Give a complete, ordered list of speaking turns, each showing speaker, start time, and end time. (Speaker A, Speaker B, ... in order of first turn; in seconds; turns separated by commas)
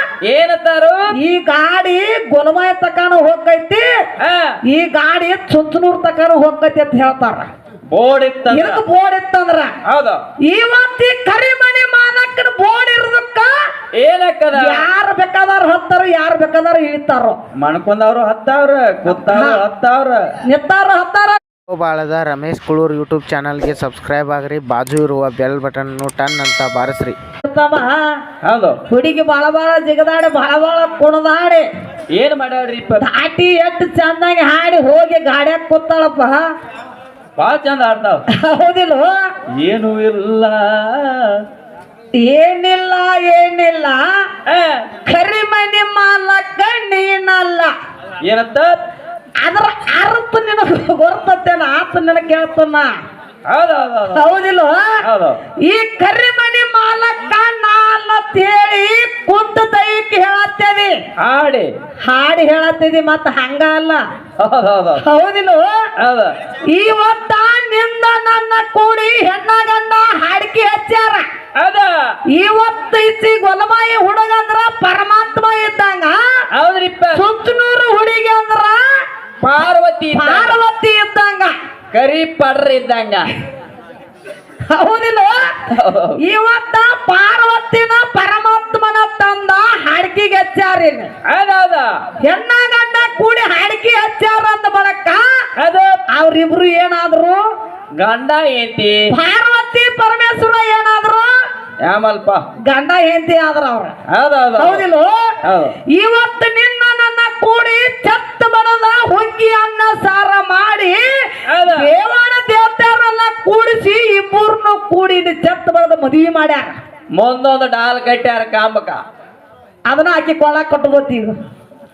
Speaker A: 0.2-1.1, Speaker B: 1.1-3.8, Speaker A: 4.2-4.6, Speaker B: 4.7-7.5, Speaker A: 7.9-8.8, Speaker B: 8.5-9.7, Speaker A: 9.8-10.2, Speaker B: 10.4-13.5, Speaker A: 13.9-14.9, Speaker B: 14.5-17.4, Speaker A: 17.6-20.2, Speaker B: 19.1-19.6, Speaker B: 20.5-21.4, Speaker C: 21.7-27.2, Speaker B: 27.4-28.0, Speaker A: 28.4-28.8, Speaker B: 28.9-31.6, Speaker A: 32.1-33.0, Speaker B: 33.0-36.4, Speaker A: 37.4-38.2, Speaker B: 38.3-39.1, Speaker A: 39.6-41.4, Speaker B: 42.2-44.0, Speaker A: 44.5-44.9, Speaker B: 45.0-47.7, Speaker A: 48.2-48.8, Speaker B: 49.4-52.9, Speaker A: 53.5-54.3, Speaker B: 54.1-55.0, Speaker A: 55.0-55.4, Speaker B: 55.6-61.0, Speaker A: 61.2-61.7, Speaker B: 62.0-64.0, Speaker A: 64.4-65.0, Speaker B: 65.0-65.6, Speaker A: 66.0-66.3, Speaker B: 66.7-71.2, Speaker A: 71.6-71.9, Speaker B: 72.3-76.2, Speaker A: 76.5-77.2, Speaker B: 77.1-79.0, Speaker A: 79.4-80.6, Speaker B: 80.1-81.5, Speaker A: 81.9-83.3, Speaker B: 84.7-85.6, Speaker A: 85.7-86.2, Speaker B: 86.2-91.1, Speaker A: 91.3-91.9, Speaker B: 92.2-95.2, Speaker A: 95.6-96.0, Speaker B: 96.1-97.4, Speaker A: 98.0-99.0, Speaker B: 99.1-101.3, Speaker A: 101.8-102.4, Speaker B: 102.6-103.9, Speaker A: 104.1-104.8, Speaker B: 104.6-105.3, Speaker A: 105.4-105.8, Speaker B: 105.9-111.0, Speaker A: 111.5-111.9, Speaker B: 111.6-116.8, Speaker A: 117.1-119.0, Speaker B: 119.9-121.3